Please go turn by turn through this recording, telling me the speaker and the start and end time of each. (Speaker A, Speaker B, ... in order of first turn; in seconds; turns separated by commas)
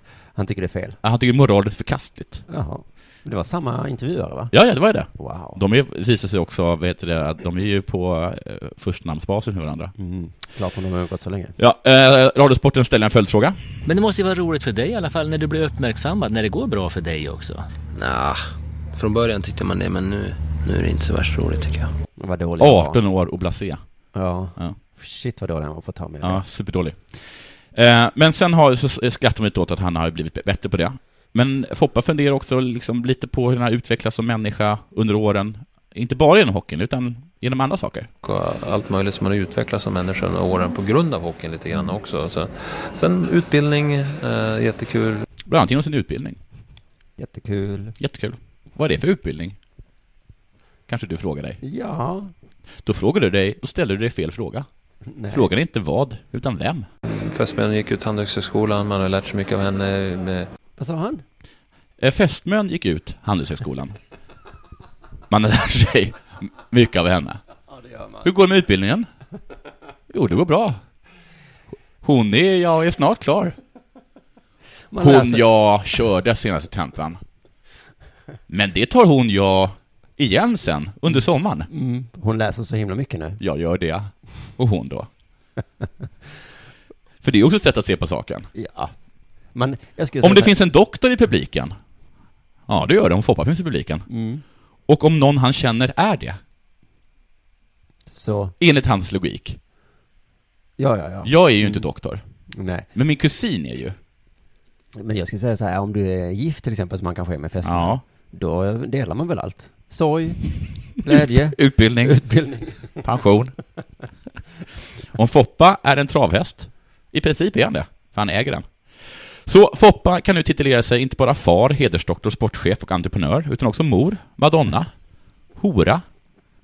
Speaker A: 0.3-1.0, Speaker B: 1.0-2.4, Speaker A: 2.5-4.5, Speaker B: 4.5-9.9, Speaker A: 5.2-5.6, Speaker A: 10.0-11.6, Speaker B: 11.6-13.6, Speaker C: 13.8-17.7, Speaker D: 17.9-21.9, Speaker A: 22.2-23.0, Speaker B: 22.6-23.8, Speaker A: 24.1-26.4, Speaker B: 26.2-38.1, Speaker E: 38.2-45.2, Speaker B: 45.5-46.4, Speaker A: 47.2-48.0, Speaker B: 48.0-49.6, Speaker B: 50.9-51.6, Speaker A: 51.6-52.3, Speaker B: 52.8-54.7, Speaker A: 55.1-55.5, Speaker B: 55.3-56.9, Speaker E: 57.1-60.5, Speaker A: 60.8-61.2, Speaker B: 62.0-64.0, Speaker B: 65.3-67.4, Speaker A: 67.7-68.3, Speaker B: 68.2-69.1, Speaker B: 70.1-70.8, Speaker B: 72.0-73.5, Speaker A: 74.9-75.5, Speaker B: 75.0-77.2, Speaker B: 78.5-81.7, Speaker A: 81.7-83.4, Speaker B: 83.4-85.1, Speaker B: 87.2-88.5, Speaker A: 88.5-88.9, Speaker A: 89.5-90.5, Speaker B: 90.2-91.8, Speaker B: 92.7-94.0, Speaker A: 94.1-94.4, Speaker B: 94.9-96.4, Speaker A: 98.1-98.5, Speaker B: 98.6-99.6, Speaker A: 100.8-101.8, Speaker B: 101.2-102.2, Speaker A: 102.5-102.9, Speaker B: 102.9-104.0, Speaker A: 105.0-110.4, Speaker B: 107.6-108.0, Speaker A: 111.0-113.0, Speaker B: 111.1-112.2, Speaker B: 113.0-113.5, Speaker B: 115.1-124.9, Speaker B: 125.5-126.0